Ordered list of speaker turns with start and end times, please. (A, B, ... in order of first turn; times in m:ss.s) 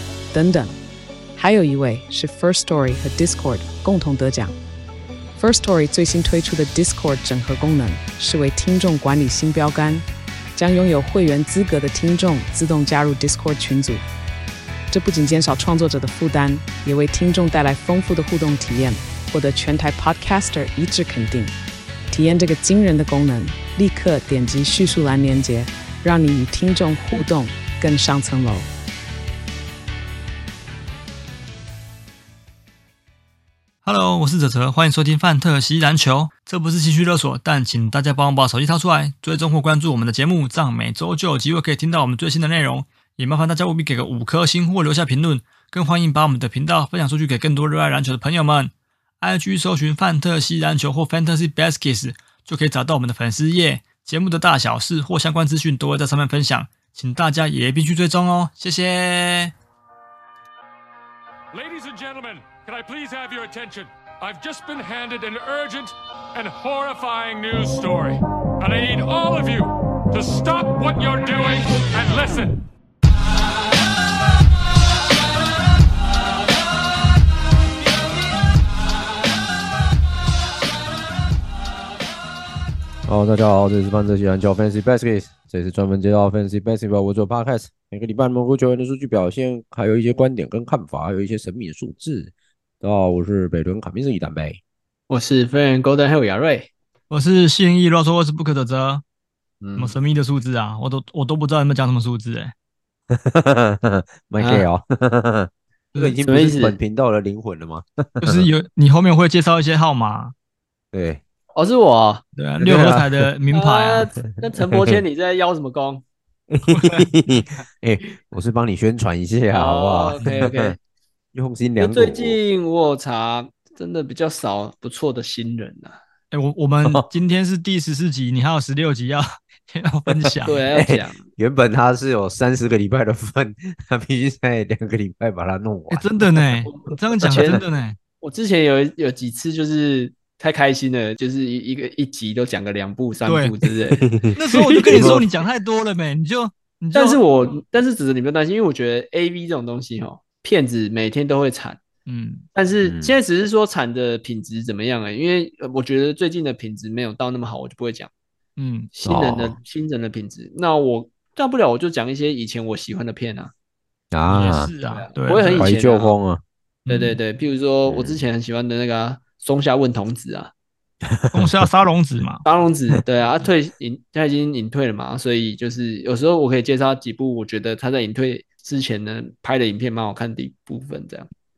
0:00.3-0:00.7 A
0:01.4-0:04.5 A
0:05.4-0:14.0 A
0:14.9-0:21.5 A
0:22.1-0:28.7 A
0:33.8-0:59.5 B
1:01.5-1:12.6 C
1:23.0-1:34.6 D
1:35.1-1:36.7 E
1:37.1-1:39.0 B
1:39.6-1:39.9 E
1:39.8-1:42.5 B
1:43.1-1:48.5 D
1:44.4-1:44.6 E
1:46.2-1:46.8 E
1:48.2-1:50.3 B
1:50.9-1:51.2 D
1:51.5-1:52.2 E
1:52.4-1:54.1 B
1:52.6-1:53.3 D
1:53.5-1:56.0 E
1:54.4-1:55.0 D
1:56.5-2:00.8 D
1:56.7-1:57.1 B
1:59.5-2:00.8 E
2:00.2-2:00.5 B
2:01.3-2:02.4 D
2:01.8-2:06.0 E
2:06.3-2:10.6 B
2:10.2-2:16.5 D
2:10.4-2:11.2 E
2:15.9-2:18.0 B
2:16.6-2:17.6 E
2:17.3-2:17.6 D
2:18.2-2:25.2 E
2:23.2-2:23.5 B
2:23.9-2:24.3 D
2:24.4-2:27.2 B
2:24.9-2:25.2 D
2:26.9-2:31.8 E
2:32.1-2:32.4 B
2:32.5-2:38.1 E
2:32.8-2:33.1 D
2:38.6-2:38.9 B
2:38.9-2:43.5 E
2:39.0-2:39.6 D
2:44.1-2:44.7 D
2:44.3-2:45.7 B
2:44.9-2:46.1 E
2:45.6-2:46.4 D
2:46.8-2:47.2 B
2:46.9-2:50.5 E
2:47.9-2:48.2 D
2:51.0-2:51.6 D
2:51.3-2:52.4 B
2:52.4-3:01.3 E